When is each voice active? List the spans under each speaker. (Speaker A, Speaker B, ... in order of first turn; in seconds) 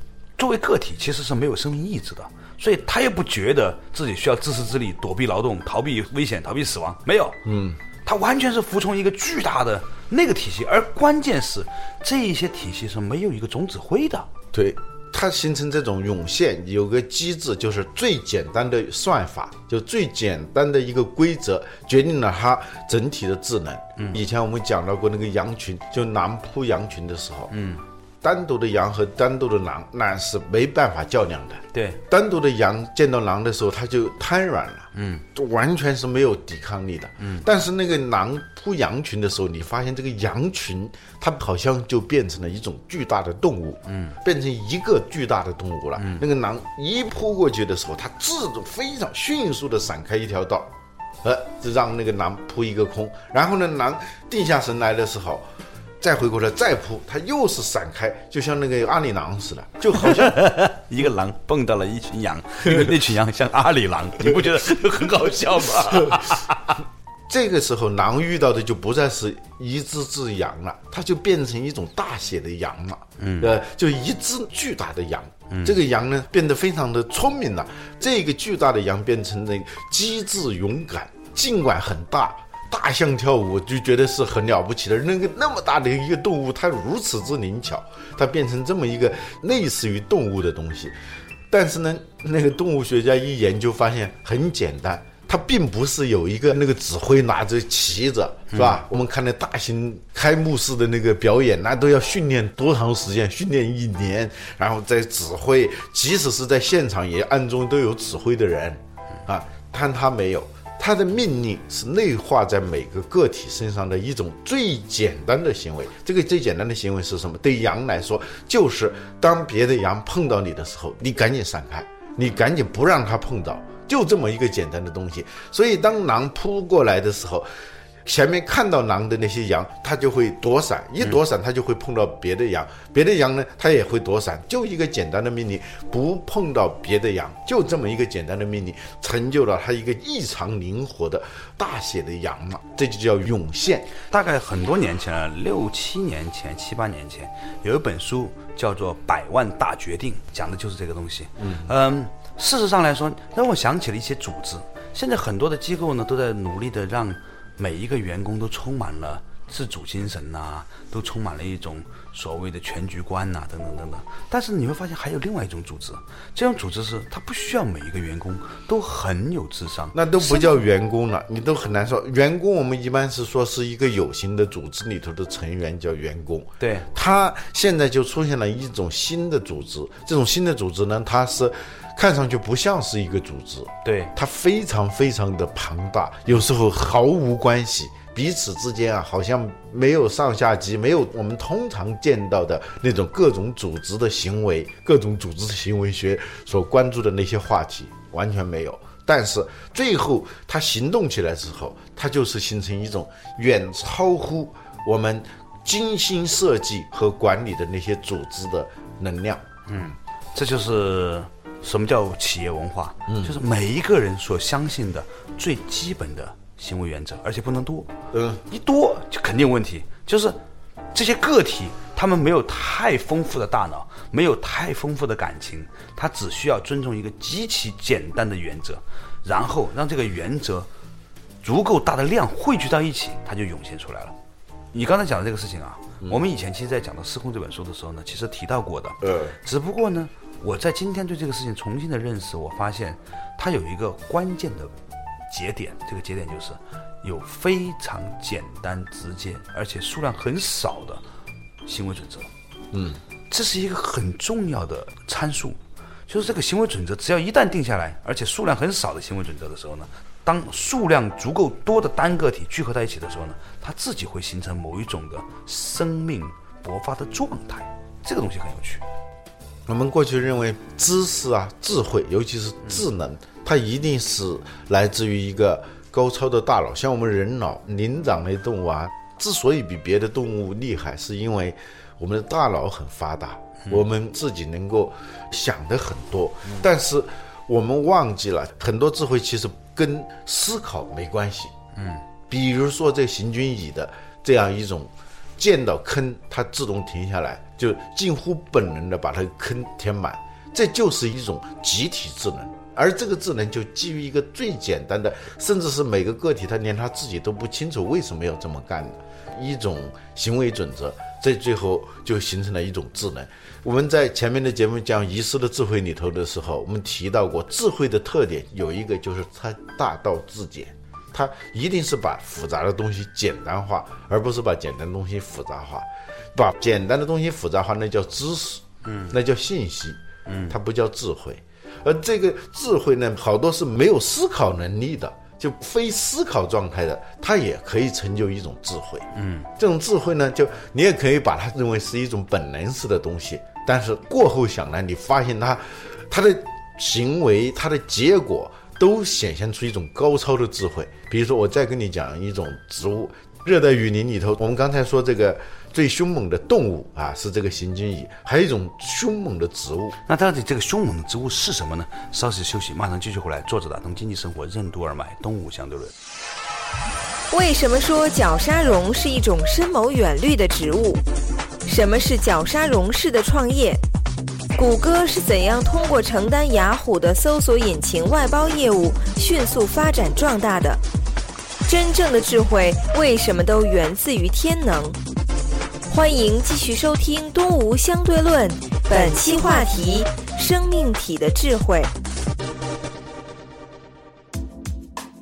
Speaker A: 0.4-7.4, 8.0-14.3, 27.5-27.8, 31.7-32.0, 34.9-35.2, 37.2-37.4, 43.9-44.1, 46.0-46.2, 60.0-66.8, 73.2-73.6, 75.5-75.8, 98.5-98.8, 144.1-170.6, 176.6-176.9, 183.8-184.1, 209.7-217.9, 218.5-220.4, 220.9-230.7, 231.4-234.2, 234.7-244.7, 245.3-251.0, 251.7-252.3, 253.3-268.8, 291.8-292.0, 328.8-329.1, 330.2-330.6, 339.1-339.5, 360.1-365.9
Speaker B: 7.4-7.8, 14.5-27.5, 28.2-50.7, 51.2-55.4, 56.0-60.4, 67.3-90.9, 91.5-127.5, 128.1-143.9, 151.4-151.7, 169.9-209.4, 213.1-213.3, 218.1-218.4, 239.0-239.3, 252.7-253.0, 269.7-291.5, 292.3-360.0
Speaker C: 367.3-371.0, 371.6-373.8, 374.6-380.8, 381.7-385.0, 385.9-391.9